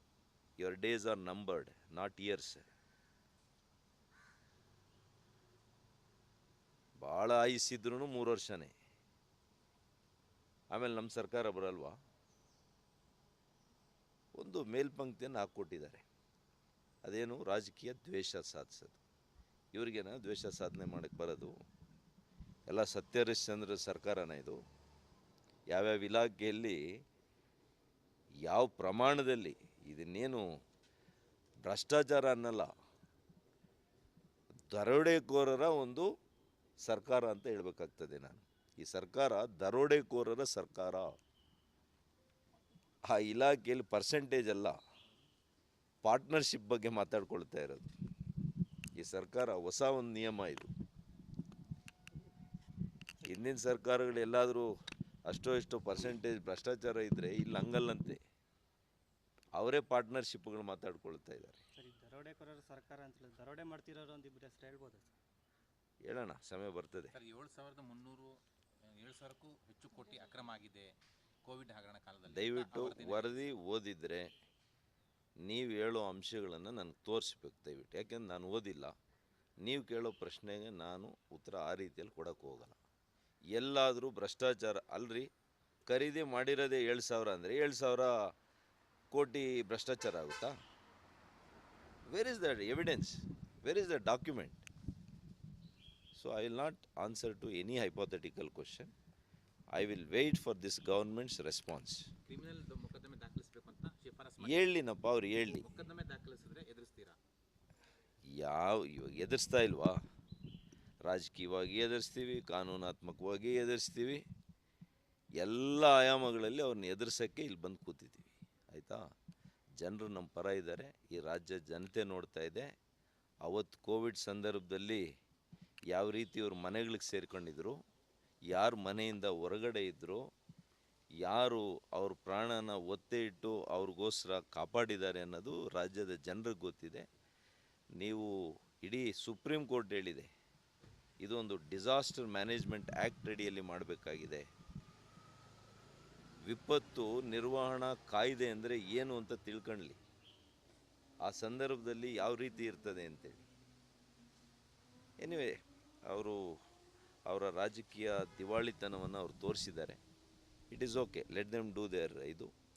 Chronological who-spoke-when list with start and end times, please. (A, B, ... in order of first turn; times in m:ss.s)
0:00.6-0:02.6 A
0:07.0-0:08.7 A
0:10.7-0:12.0 A
0:14.4-0:16.0 A
0:17.0-0:19.0 A
0:19.8-0:21.5 A
0:22.7-0:24.6 A
0:25.7-0:26.8 A
0:28.5-0:30.4 A
0:31.7-0:32.7 A
0:34.7-0:36.1 A
0:36.8-0:41.2 A
0:43.1-0:44.8 A
0:46.0-0:47.9 A
0:49.0-0:50.7 A
0:53.2-0:54.7 A
0:55.3-0:58.2 A
0:59.6-1:01.6 A
1:01.8-1:05.2 B
1:06.0-1:07.2 A
1:07.1-1:08.4 C
1:08.9-1:10.9 C
1:11.5-1:13.3 C
1:12.3-1:14.3 A
1:15.4-1:18.9 A
1:19.6-1:22.8 A
1:23.5-1:25.3 A
1:25.9-1:28.1 A
1:29.1-1:30.6 A
1:32.1-1:34.7 A
1:36.2-1:38.9 A
1:39.8-1:42.0 A
1:42.3-1:44.7 C
1:44.4-1:45.7 A
1:45.4-1:47.2 C
1:48.3-1:50.0 A
1:51.0-1:54.2 A
1:55.4-1:59.0 A
1:59.8-2:02.7 A
2:03.4-2:05.0 A
2:05.9-2:07.8 A
2:08.5-2:10.3 A
2:11.2-2:17.1 A
2:18.0-2:20.3 A
2:21.2-2:24.5 A
2:26.5-2:30.0 A
2:31.2-2:33.4 A
2:35.2-2:36.6 A
2:37.3-2:40.0 A
2:40.7-2:42.5 A